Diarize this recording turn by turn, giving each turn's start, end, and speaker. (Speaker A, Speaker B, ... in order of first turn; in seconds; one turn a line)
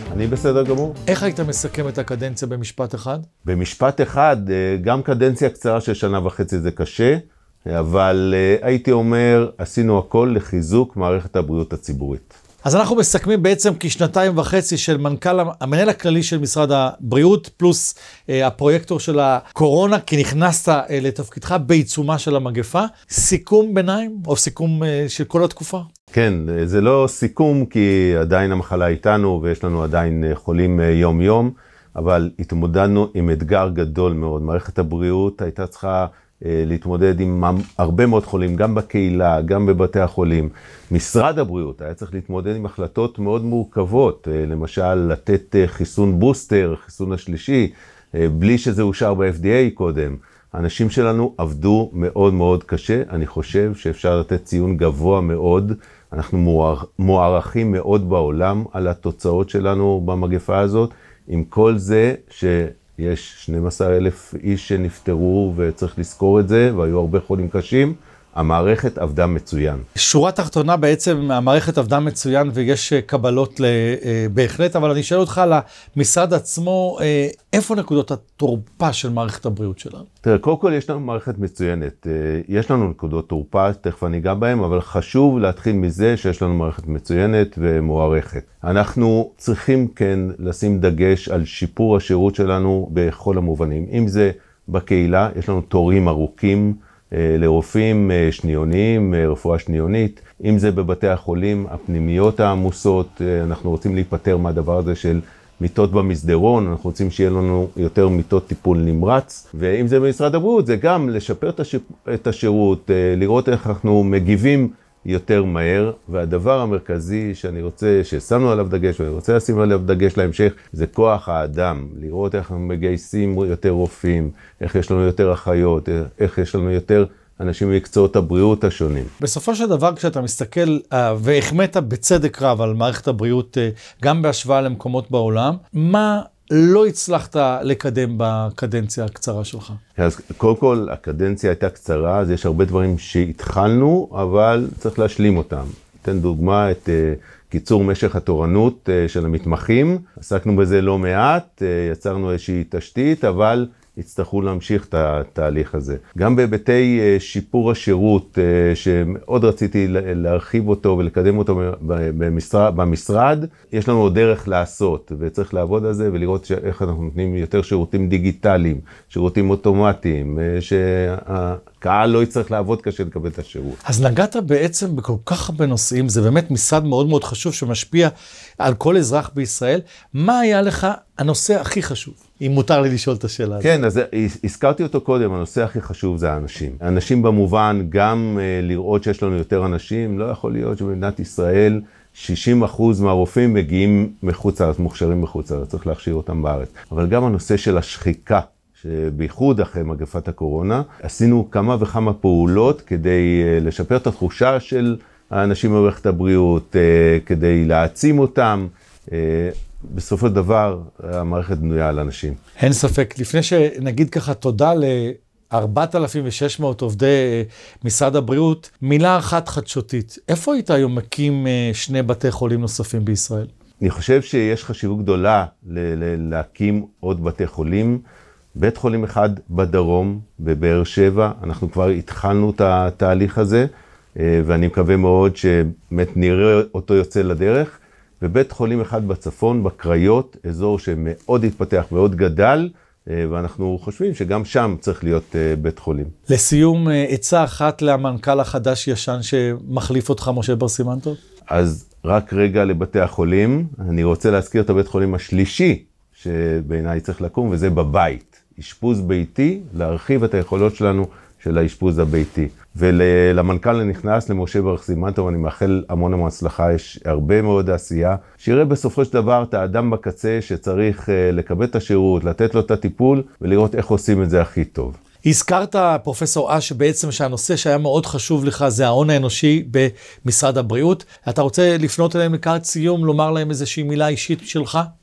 Speaker A: 0.1-1.0
Speaker B: 1.1-3.3
Speaker A: 3.4-12.3
Speaker B: 12.6-25.9
Speaker A: 26.1-69.8
Speaker B: 70.0-80.1
Speaker A: 80.2-129.1
Speaker B: 129.2-139.8
Speaker A: 140.0-173.8
Speaker B: 173.8-183.7
Speaker A: 183.6-212.4
Speaker B: 212.6-223.5
Speaker A: 223.8-228.0
Speaker A: 228.6-246.1
Speaker B: 246.3-251.2
Speaker A: 251.5-275.0
Speaker B: 275.2-284.9